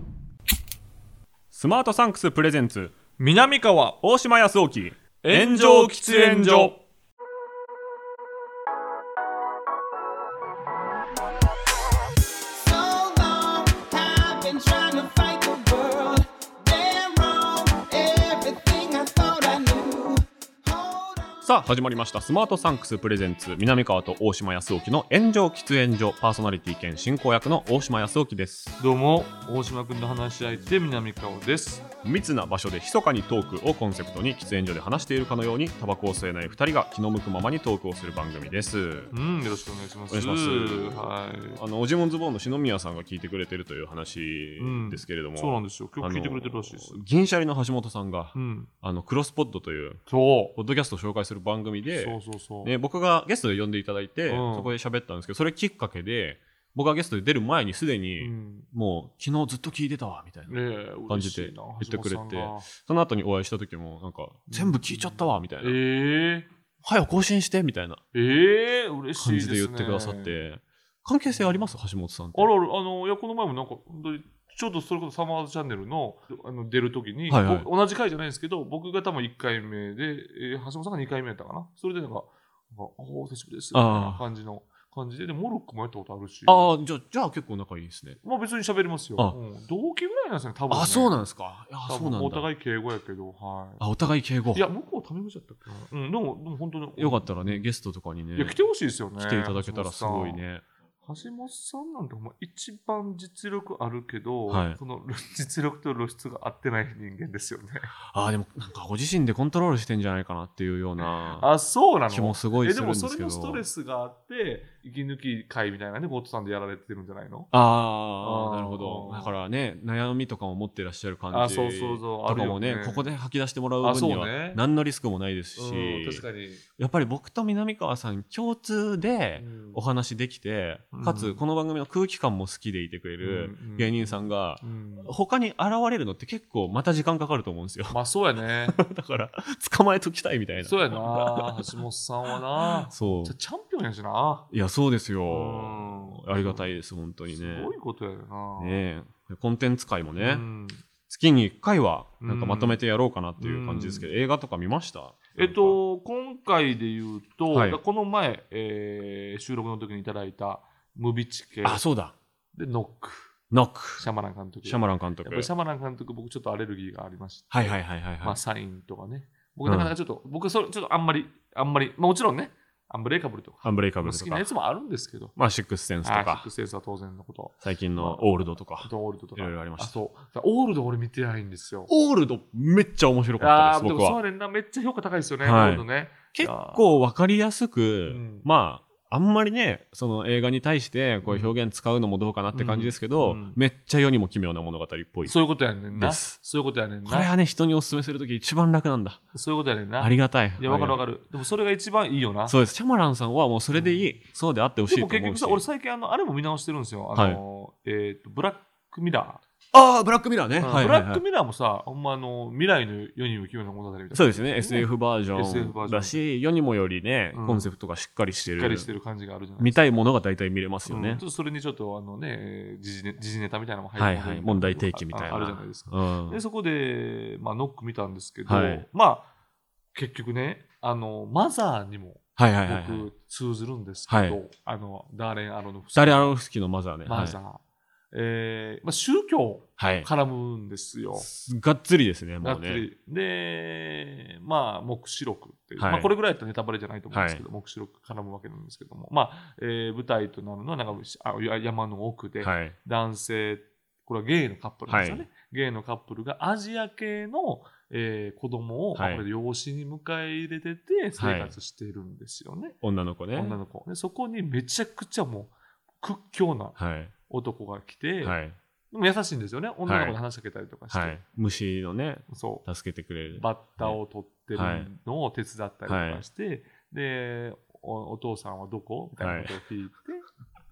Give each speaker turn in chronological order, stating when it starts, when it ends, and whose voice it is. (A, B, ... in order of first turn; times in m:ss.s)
0:01.5-0:02.9 A
0:03.2-0:04.0 B
0:04.0-0:06.8 A
0:05.2-0:06.8 B
0:12.6-0:21.5 C
0:21.4-0:28.8 A
0:28.8-0:31.9 B
0:32.0-0:39.1 A
0:39.1-0:41.6 B
0:40.1-0:50.0 A
0:44.6-0:47.0 B
0:48.4-0:48.7 B
0:50.1-0:50.6 B
0:50.6-1:00.6 A
0:51.9-0:52.7 B
0:54.3-0:54.7 B
0:58.2-0:58.7 B
1:00.5-1:02.7 B
1:01.1-1:05.8 A
1:04.5-1:06.5 B
1:06.8-1:08.0 A
1:08.1-1:10.4 B
1:09.2-1:12.5 A
1:12.4-1:26.7 B
1:17.3-1:17.7 A
1:23.7-1:24.2 A
1:26.5-1:28.2 A
1:28.2-1:31.2 B
1:30.7-1:32.5 A
1:31.9-1:33.8 B
1:33.8-1:34.6 A
1:34.5-1:37.6 B
1:37.0-1:38.6 A
1:38.4-1:40.4 B
1:39.2-1:40.6 A
1:41.0-1:47.9 B
1:44.5-1:44.8 A
1:48.1-1:51.5 A
1:51.0-1:57.5 B
1:52.1-1:53.6 A
1:57.5-2:06.2 A
1:58.2-1:59.3 B
2:01.3-2:03.1 B
2:03.8-2:04.6 B
2:05.6-2:06.6 B
2:06.8-2:18.0 A
2:09.4-2:09.8 B
2:10.9-2:11.4 B
2:13.2-2:15.1 B
2:17.9-2:18.8 B
2:18.6-2:21.8 A
2:20.6-2:24.5 B
2:22.6-2:23.3 A
2:24.5-2:27.7 A
2:25.3-2:26.7 B
2:27.4-2:28.8 B
2:28.6-2:30.4 A
2:30.2-2:30.8 B
2:31.1-2:35.8 A
2:32.2-2:32.8 B
2:33.4-2:34.1 B
2:35.4-2:41.8 B
2:37.5-2:37.8 A
2:41.6-2:42.2 A
2:42.5-2:43.3 B
2:43.5-2:44.1 A
2:44.0-2:55.4 B
2:44.6-2:45.5 A
2:47.5-2:48.4 A
2:49.7-2:49.9 A
2:53.6-2:54.5 A
2:55.4-2:56.5 A
2:56.0-2:58.3 B
2:57.6-3:00.0 A
2:58.8-3:01.9 B
3:01.9-3:04.2 A
3:03.4-3:06.8 B
3:05.4-3:15.4 A
3:08.1-3:08.5 B
3:11.2-3:11.6 B
3:12.5-3:13.6 B
3:15.2-3:17.3 B
3:15.9-3:16.4 A
3:17.0-3:19.2 A
3:19.3-3:22.6 B
3:20.0-3:21.0 A
3:22.5-3:25.6 A
3:23.7-3:24.1 B
3:24.9-3:29.4 B
3:27.2-3:27.4 A
3:29.7-3:31.2 A
3:30.6-3:36.2 B
3:34.1-3:38.9 A
3:37.3-3:37.7 B
3:38.5-3:39.8 B
3:39.6-3:41.2 A
3:40.9-3:49.3 B
3:44.0-3:46.4 A
3:48.5-3:48.9 A
3:49.9-3:56.4 B
3:52.4-3:53.1 A
3:54.1-3:54.4 A
3:56.0-3:57.4 A
3:57.1-4:01.3 B
3:59.8-4:00.1 A
4:01.2-4:02.9 A
4:02.4-4:22.8 B
4:05.8-4:06.1 A
4:07.1-4:07.4 A
4:12.4-4:12.8 A
4:14.9-4:15.3 A
4:19.0-4:19.2 A
4:21.2-4:21.6 A
4:22.8-4:23.6 A
4:23.3-4:26.8 B
4:26.8-4:27.1 A
4:27.3-4:28.4 B
4:28.2-4:28.6 A
4:28.9-4:31.2 B
4:29.9-4:30.2 A
4:30.9-4:34.0 A
4:32.3-4:32.7 B
4:33.3-4:40.3 B
4:34.6-4:34.9 A
4:35.9-4:36.2 A
4:39.2-4:39.5 A